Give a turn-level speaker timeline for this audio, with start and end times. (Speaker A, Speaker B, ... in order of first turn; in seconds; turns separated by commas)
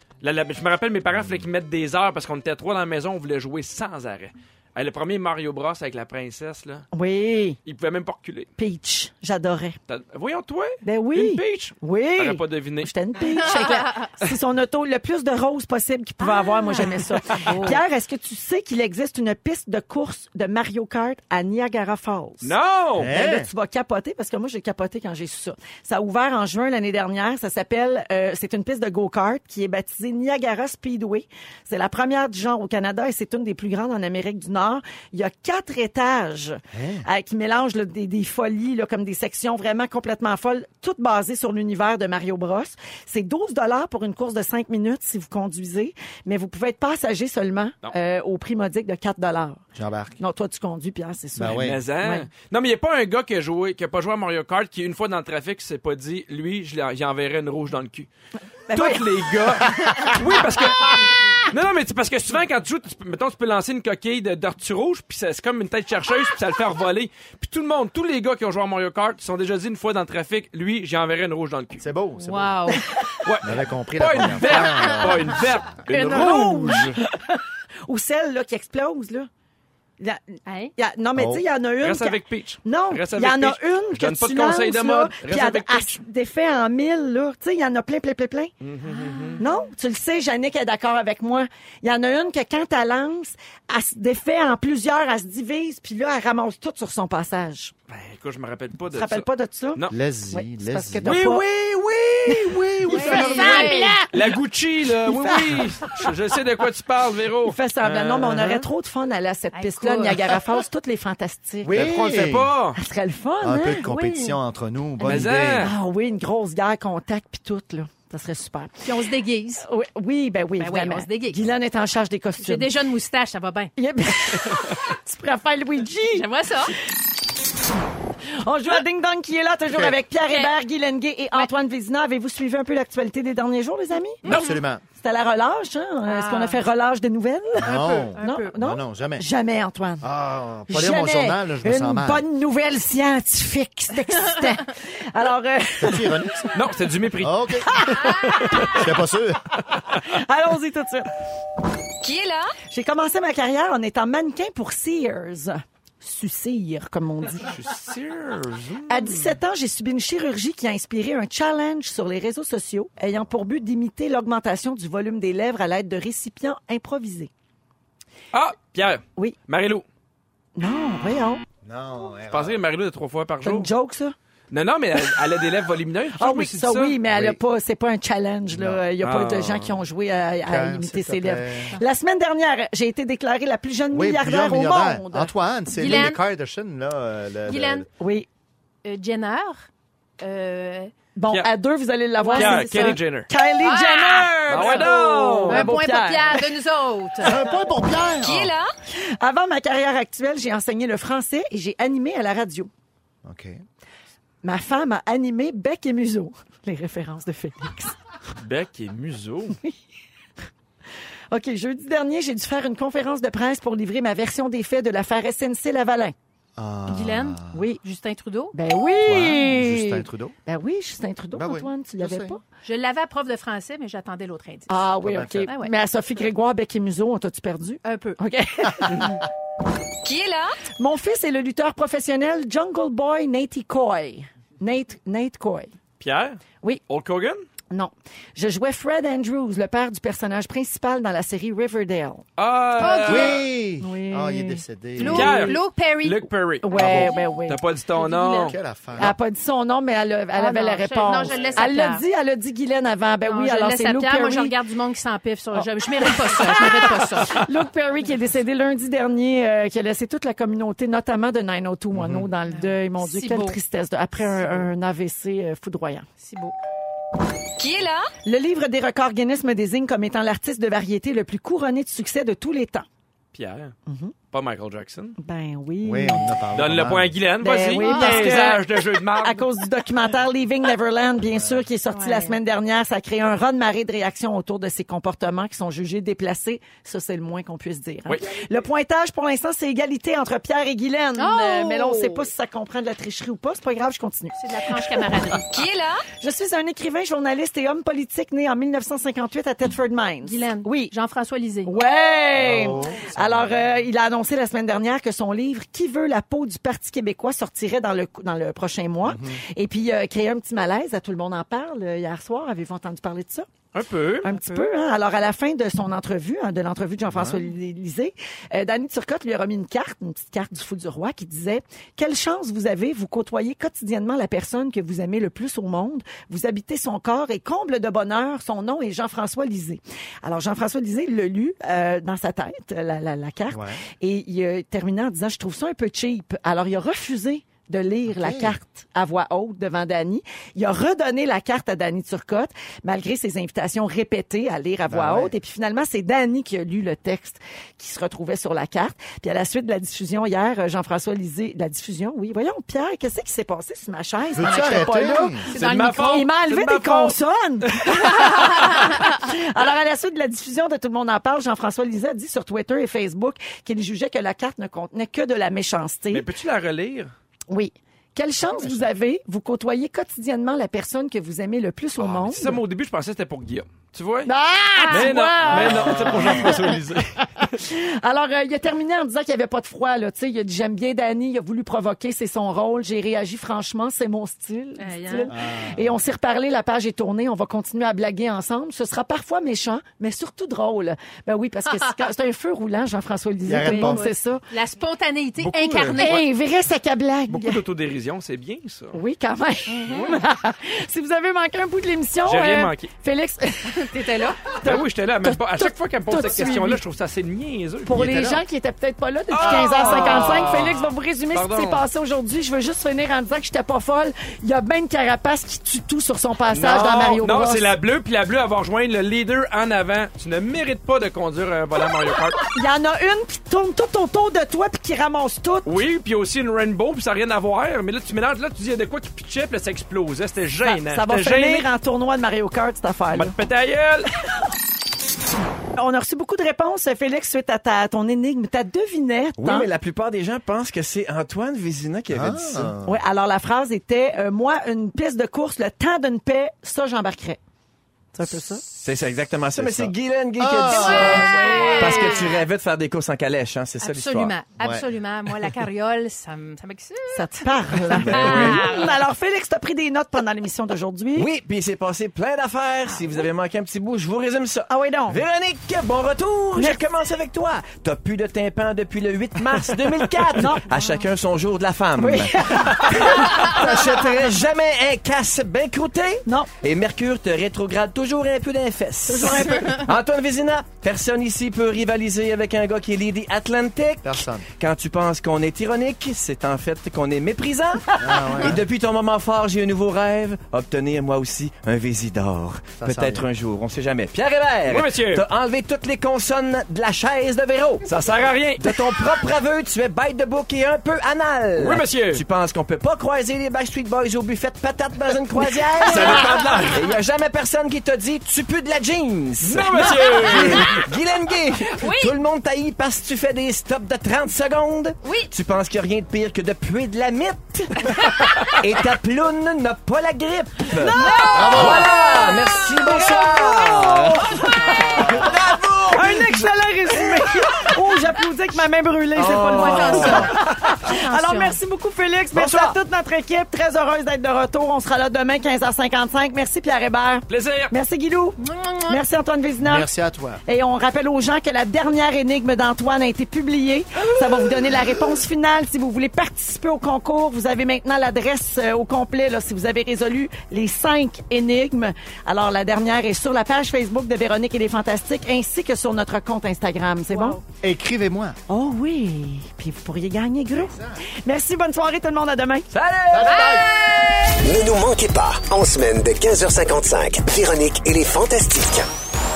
Speaker A: 0.2-6.8, Speaker B: 1.1-1.4, Speaker C: 6.9-7.6, Speaker A: 7.7-8.5, Speaker C: 8.6-9.8, Speaker A: 9.9-12.9, Speaker C: 10.8-49.6, Speaker D: 13.3-14.1, Speaker D: 16.2-17.8, Speaker A: 22.4-23.1, Speaker B: 23.0-23.5, Speaker B: 36.7-37.0, Speaker B: 49.8-50.2, Speaker C: 50.2-52.3, Speaker B: 51.4-51.8, Speaker A: 51.5-58.1, Speaker C: 58.7-59.6, Speaker A: 58.7-71.9, Speaker B: 71.8-72.9, Speaker D: 72.2-72.8, Speaker A: 73.2-77.0, Speaker B: 73.4-75.5, Speaker C: 75.9-79.3, Speaker C: 80.0-88.5, Speaker D: 80.5-80.7, Speaker B: 81.2-81.4, Speaker A: 81.8-86.0, Speaker A: 88.6-89.4, Speaker D: 88.8-89.6, Speaker C: 89.4-97.7, Speaker A: 97.9-100.0, Speaker C: 98.9-101.4, Speaker B: 99.9-101.2, Speaker A: 101.0-108.7, Speaker C: 102.3-106.1, Speaker D: 102.9-104.0, Speaker B: 102.9-103.4, Speaker C: 107.4-113.9, Speaker D: 109.5-110.3, Speaker B: 111.6-112.5, Speaker A: 111.7-112.8, Speaker B: 113.4-115.7, Speaker D: 113.8-114.4, Speaker C: 115.0-118.8, Speaker A: 115.0-115.7, Speaker D: 118.8-119.6, Speaker C: 119.6-122.7, Speaker D: 120.6-121.4, Speaker D: 122.4-123.7, Speaker C: 123.8-126.3, Speaker D: 126.1-126.7, Speaker C: 128.2-134.3, Speaker D: 134.2-134.6, Speaker B: 134.2-134.8, Speaker C: 135.0-140.1, Speaker D: 136.1-136.6, Speaker B: 137.6-139.2, Speaker D: 137.6-138.6, Speaker B: 140.0-142.2, Speaker C: 140.7-146.5, Speaker B: 145.8-146.5, Speaker A: 146.5-147.4, Speaker B: 147.2-149.6, Speaker C: 147.6-149.0, Speaker D: 148.0-148.4, Speaker C: 149.9-151.1, Speaker E: 152.0-152.5, Speaker C: 152.7-157.6, Speaker A: 157.4-159.4, Speaker C: 158.9-167.3, Speaker A: 168.3-169.8, Speaker C: 170.6-171.4, Speaker B: 171.6-172.6, Speaker A: 172.3-173.7, Speaker C: 173.4-174.2, Speaker A: 174.5-177.0, Speaker C: 176.2-185.3, Speaker B: 177.1-177.4, Speaker B: 178.5-178.8, Speaker A: 179.0-179.7, Speaker B: 180.4-181.7, Speaker B: 183.9-187.9, Speaker D: 185.7-186.2, Speaker D: 187.5-187.9, Speaker C: 188.0-188.3, Speaker D: 188.8-189.7, Speaker D: 190.2-190.9, Speaker C: 191.2-196.4, Speaker D: 192.2-192.9, Speaker A: 192.3-193.3, Speaker D: 193.6-194.9, Speaker A: 194.5-195.7, Speaker D: 195.5-197.3, Speaker B: 197.2-198.5, Speaker E: 198.2-198.7, Speaker C: 198.9-202.7, Speaker B: 203.2-203.6, Speaker C: 204.4-208.0, Speaker A: 208.3-209.6, Speaker C: 211.3-216.1, Speaker B: 216.6-217.6, Speaker D: 216.9-218.5, Speaker C: 217.5-217.8, Speaker C: 218.5-222.4, Speaker B: 219.0-220.3, Speaker B: 221.3-222.4, Speaker D: 222.6-225.7, Speaker C: 224.7-229.2, Speaker B: 225.0-225.5, Speaker D: 227.8-228.2, Speaker E: 230.0-230.5, Speaker C: 230.8-235.7, Speaker A: 236.0-237.4, Speaker C: 237.7-242.2, Speaker A: 242.4-243.4, Speaker D: 242.8-243.4, Speaker B: 243.0-245.4, Speaker C: 243.8-245.6, Speaker D: 245.0-246.3, Speaker A: 245.0-248.6, Speaker C: 246.6-247.6, Speaker B: 246.7-247.1, Speaker D: 247.9-248.5, Speaker B: 248.5-249.2, Speaker C: 249.0-254.5, Speaker D: 250.3-252.0, Speaker D: 253.2-257.4, Speaker C: 255.5-266.1, Speaker B: 261.9-262.3, Speaker D: 262.5-263.6, Speaker D: 266.2-266.5, Speaker E: 267.6-268.1, Speaker C: 268.2-272.9, Speaker A: 273.3-273.7, Speaker C: 273.9-274.1, Speaker A: 274.3-275.1, Speaker C: 275.2-276.4, Speaker B: 275.8-277.1, Speaker A: 276.5-279.4, Speaker C: 277.4-295.4, Speaker D: 277.8-278.5, Speaker B: 281.2-281.6, Speaker D: 281.9-282.4, Speaker D: 291.1-292.3, Speaker D: 294.3-295.5, Speaker E: 295.5-296.0, Speaker C: 296.2-300.9, Speaker D: 300.2-301.7, Speaker C: 301.6-313.4, Speaker B: 302.3-303.8, Speaker B: 309.0-309.4, Speaker A: 313.7-314.6, Speaker C: 314.2-366.3, Speaker B: 317.1-317.4, Speaker B: 333.5-333.8, Speaker B: 338.1-338.6, Speaker B: 344.9-345.3, Speaker B: 354.4-355.4, Speaker D: 355.5-356.3, Speaker A: 355.5-358.5, Speaker D: 358.3-358.9, Speaker A: 366.1-367.1, Speaker C: 367.5-372.6, Speaker B: 368.6-368.8, Speaker B: 372.0-372.5, Speaker A: 372.3-374.3, Speaker C: 374.2-376.8, Speaker D: 374.8-375.1, Speaker A: 374.9-377.5, Speaker B: 375.4-376.5, Speaker C: 377.5-394.4, Speaker D: 384.8-385.3, Speaker B: 385.3-386.0, Speaker D: 391.7-392.0, Speaker B: 393.4-394.1, Speaker D: 393.6-396.2, Speaker A: 395.4-396.2, Speaker C: 395.9-397.6, Speaker A: 397.3-399.0, Speaker C: 398.9-406.8, Speaker D: 399.7-400.1, Speaker A: 402.2-402.9, Speaker D: 403.7-404.4, Speaker A: 404.6-408.0, Speaker C: 407.8-417.7, Speaker B: 407.9-408.4, Speaker A: 409.3-411.8, Speaker A: 416.5-422.4, Speaker C: 422.5-425.7, Speaker A: 425.6-431.7, Speaker C: 430.6-433.3, Speaker A: 433.1-434.1, Speaker C: 435.7-439.7, Speaker F: 439.4-442.8, Speaker B: 442.1-443.0, Speaker C: 442.8-447.4, Speaker C: 448.1-448.6, Speaker F: 448.8-454.3, Speaker B: 449.6-451.4, Speaker D: 450.7-452.4, Speaker C: 450.9-452.2, Speaker D: 453.8-459.0, Speaker B: 454.6-454.9, Speaker C: 457.1-461.3, Speaker F: 457.9-458.6, Speaker F: 461.1-497.9, Speaker C: 464.7-465.2, Speaker C: 466.6-466.8, Speaker C: 470.3-471.0, Speaker C: 472.0-473.6, Speaker C: 476.2-476.5, Speaker C: 479.1-479.9, Speaker B: 484.0-484.4, Speaker B: 488.0-488.6, Speaker B: 492.8-493.2, Speaker A: 494.7-495.2, Speaker A: 497.8-498.8, Speaker F: 498.6-526.4, Speaker A: 501.6-502.2, Speaker D: 505.9-506.2, Speaker A: 505.9-506.8, Speaker A: 509.4-510.8, Speaker D: 510.3-510.8, Speaker D: 511.7-512.1, Speaker D: 515.0-515.3, Speaker D: 517.9-518.3, Speaker C: 520.8-538.4, Speaker D: 520.9-524.8, Speaker B: 521.3-521.9, Speaker B: 525.0-525.3, Speaker F: 529.1-530.3, Speaker D: 529.5-531.6, Speaker B: 529.9-530.3, Speaker B: 532.3-532.7, Speaker A: 537.3-537.7, Speaker D: 538.4-539.0, Speaker C: 538.9-539.9, Speaker B: 539.6-540.4, Speaker C: 540.5-557.4, Speaker D: 557.1-557.4, Speaker B: 557.6-558.4, Speaker C: 558.5-562.7, Speaker B: 560.5-561.0, Speaker F: 562.7-563.6, Speaker B: 563.1-563.7, Speaker D: 563.2-563.7, Speaker G: 564.4-568.9